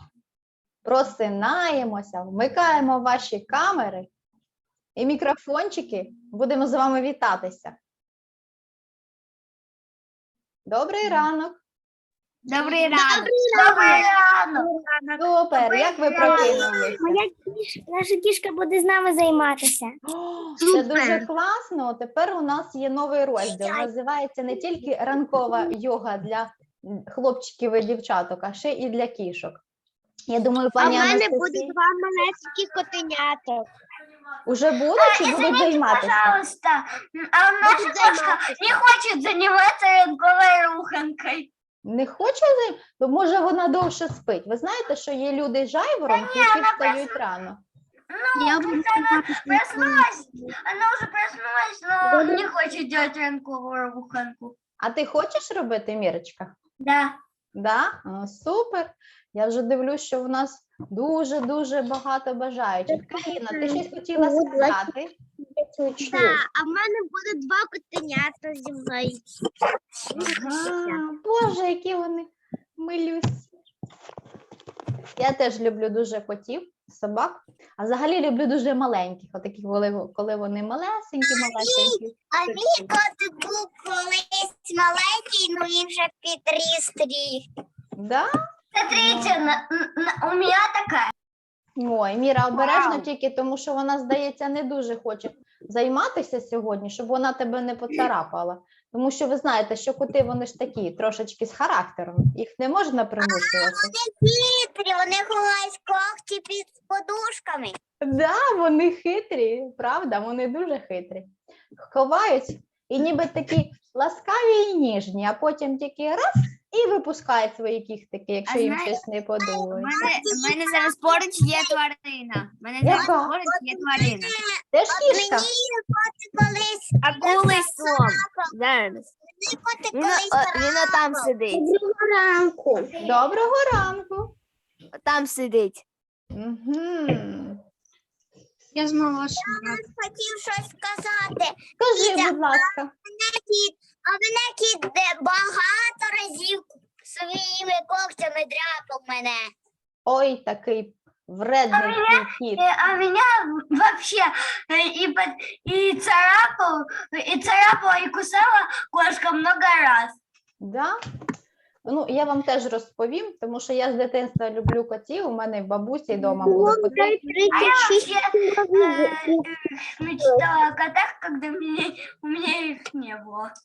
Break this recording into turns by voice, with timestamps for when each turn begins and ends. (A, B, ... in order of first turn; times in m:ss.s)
0:00.8-0:04.1 A
0:05.0-0:07.8 A
0:10.7-0:11.6 A
0:12.4-0:14.7 B
0:12.6-0:14.0 C
0:12.8-0:14.0 D
0:14.9-0:15.1 C
0:15.2-0:17.2 A
0:15.6-0:20.0 D
0:16.1-0:16.7 B
0:20.6-0:29.6 A
0:20.6-0:21.2 D
0:23.5-0:23.8 D
0:30.3-0:31.7 A
0:30.8-0:33.6 D
0:30.9-0:31.2 C
0:34.5-0:36.4 A
0:34.9-0:41.5 B
0:37.6-0:38.6 D
0:41.8-0:47.6 A
0:46.1-0:47.2 B
0:48.1-0:54.6 B
0:48.4-0:49.4 D
0:52.1-0:52.4 D
0:54.8-0:56.6 A
0:56.8-0:57.2 B
0:57.5-1:05.1 A
1:02.9-1:04.9 D
1:05.8-1:06.4 A
1:06.0-1:09.2 D
1:10.1-1:11.0 D
1:10.1-1:13.5 A
1:15.2-1:22.9 A
1:21.2-1:27.5 D
1:28.0-1:28.3 A
1:28.7-1:31.1 B
1:28.9-1:29.3 A
1:31.8-1:43.9 A
1:32.6-1:33.0 B
1:43.2-1:47.8 D
1:48.0-2:00.1 A
1:58.5-2:04.3 C
1:59.9-2:01.8 D
2:02.8-2:03.3 A
2:02.8-2:08.5 D
2:04.7-2:05.5 A
2:07.0-2:09.1 C
2:09.4-2:13.1 D
2:09.9-2:11.6 C
2:13.0-2:14.3 A
2:15.0-2:15.8 C
2:16.3-2:17.6 A
2:18.7-2:19.8 C
2:19.4-2:29.5 D
2:21.8-2:22.9 A
2:30.0-2:32.6 A
2:31.7-2:40.2 B
2:40.6-2:41.0 A
2:41.8-2:47.2 A
2:46.4-2:49.4 D
2:46.9-2:47.7 C
2:47.5-2:53.5 B